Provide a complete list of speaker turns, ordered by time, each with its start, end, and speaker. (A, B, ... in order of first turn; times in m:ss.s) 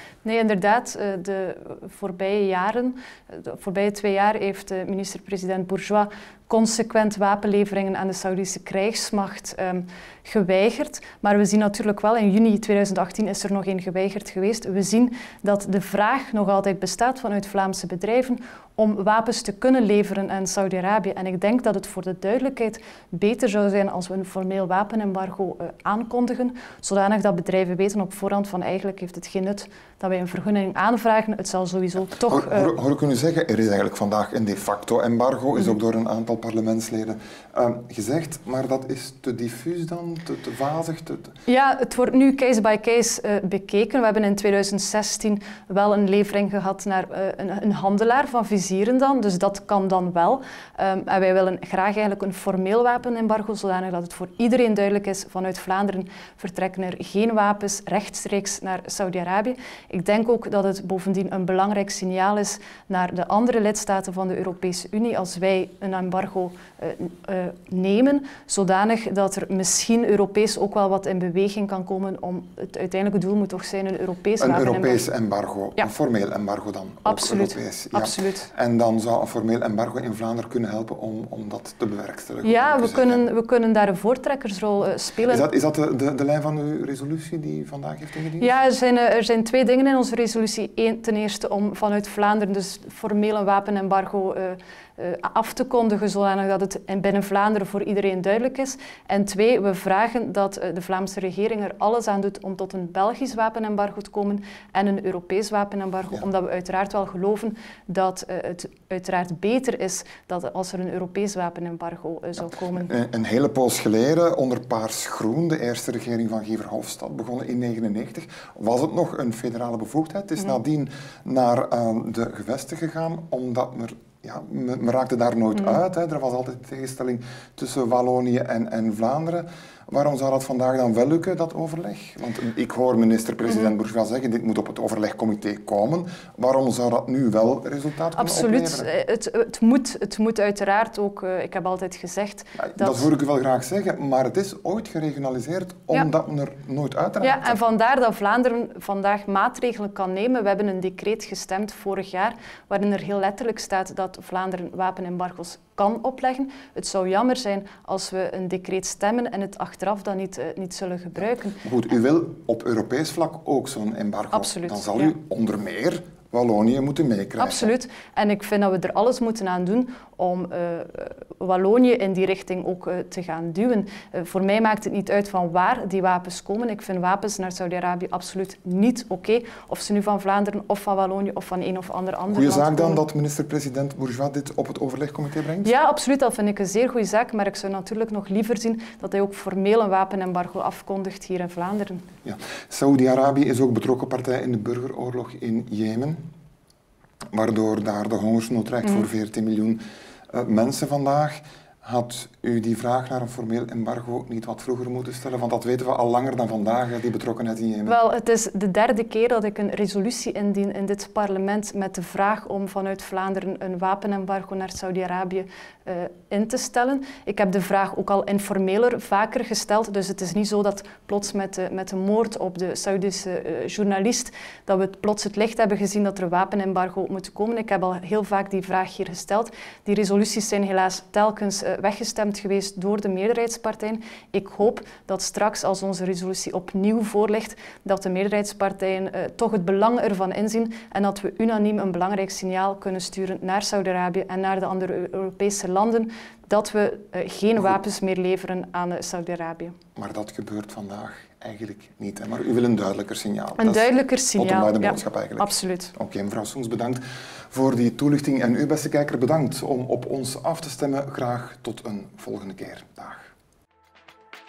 0:00.2-0:32.7 A
0:32.2-0:41.4 B
0:41.4-1:15.1 A
1:14.4-1:23.2 B
1:17.0-1:18.5 A
1:22.4-1:25.4 A
1:25.2-1:28.5 B
1:28.4-1:52.9 A
1:52.7-2:18.9 B
2:18.2-2:23.1 A
2:22.6-2:27.6 B
2:27.2-2:41.6 A
2:41.6-2:47.7 B
2:44.3-2:45.2 A
2:47.4-3:03.0 A
3:02.3-3:05.7 B
3:05.6-3:12.1 A
3:12.2-3:16.2 B
3:17.3-3:28.0 B
3:27.9-4:09.8 A
4:10.0-4:23.3 B
4:13.6-4:15.9 A